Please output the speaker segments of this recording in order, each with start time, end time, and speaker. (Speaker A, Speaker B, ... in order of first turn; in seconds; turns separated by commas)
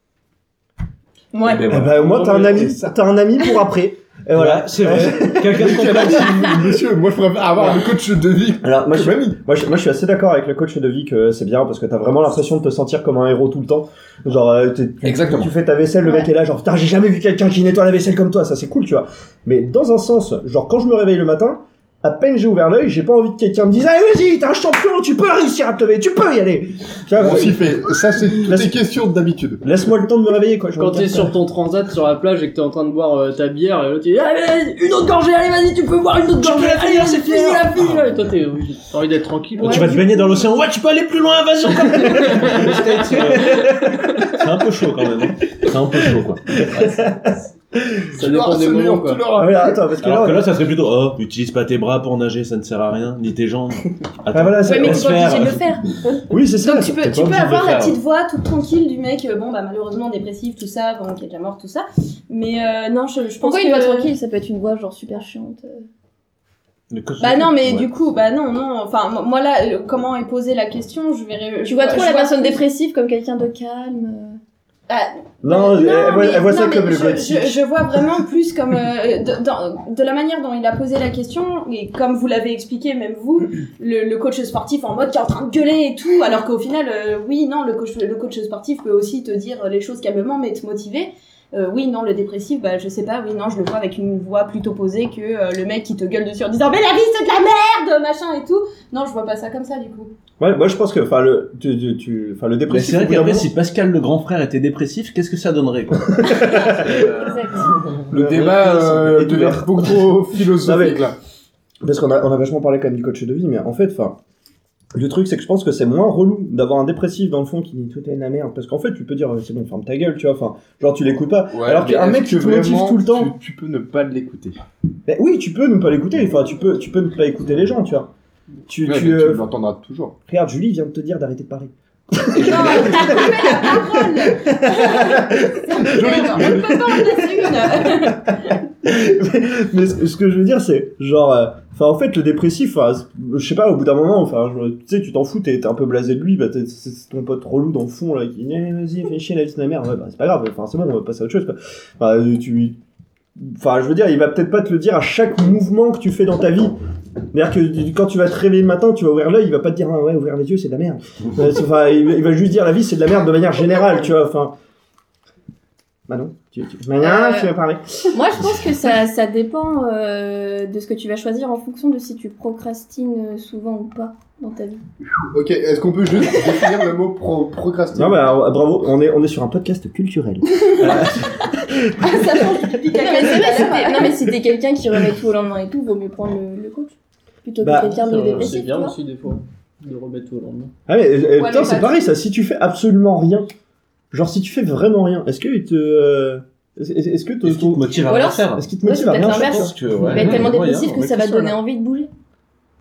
Speaker A: 1.3-1.6, Speaker B: 1.4-3.0, Speaker C: 1.7-6.0, Speaker D: 2.2-2.7, Speaker E: 4.3-6.5, Speaker B: 5.5-9.4, Speaker C: 8.6-27.8, Speaker B: 15.0-15.5, Speaker B: 27.1-29.6, Speaker C: 28.4-28.8, Speaker C: 29.6-31.4, Speaker D: 30.8-40.0, Speaker E: 36.4-38.0, Speaker E: 39.6-46.6, Speaker F: 39.7-40.1, Speaker D: 42.1-43.3, Speaker C: 42.4-44.5, Speaker C: 45.6-48.1, Speaker D: 46.7-47.4, Speaker D: 48.1-49.2, Speaker B: 48.1-49.8, Speaker C: 49.4-50.5, Speaker E: 50.0-55.8, Speaker C: 54.3-55.5, Speaker A: 54.6-64.1, Speaker C: 56.3-57.6, Speaker E: 57.4-58.0, Speaker F: 63.4-65.9, Speaker E: 66.9-67.9, Speaker A: 67.2-72.6, Speaker F: 71.7-74.4, Speaker A: 74.9-100.1, Speaker C: 75.4-77.6, Speaker C: 100.4-103.5, Speaker E: 102.7-107.1, Speaker C: 106.2-107.1, Speaker F: 107.1-107.8, Speaker C: 108.1-111.1, Speaker B: 108.1-111.2, Speaker C: 111.8-114.2, Speaker C: 115.0-123.3, Speaker B: 121.5-124.6, Speaker C: 125.1-128.1, Speaker C: 128.7-129.4, Speaker B: 128.8-130.2, Speaker C: 130.3-152.8, Speaker B: 132.4-133.2, Speaker A: 132.4-138.3, Speaker B: 135.8-136.9, Speaker C: 153.4-156.8, Speaker C: 157.3-164.5, Speaker C: 166.1-168.2, Speaker F: 167.0-167.5, Speaker F: 168.1-174.8, Speaker B: 175.3-178.3, Speaker C: 177.9-182.4, Speaker A: 180.7-181.1, Speaker A: 182.0-184.2, Speaker F: 182.9-188.9, Speaker C: 187.6-188.5, Speaker D: 188.0-190.7, Speaker C: 190.9-193.5, Speaker A: 191.4-192.1, Speaker C: 194.1-198.0, Speaker E: 197.4-198.7, Speaker F: 198.0-202.1, Speaker C: 198.5-199.8, Speaker E: 199.3-201.0, Speaker B: 200.2-201.6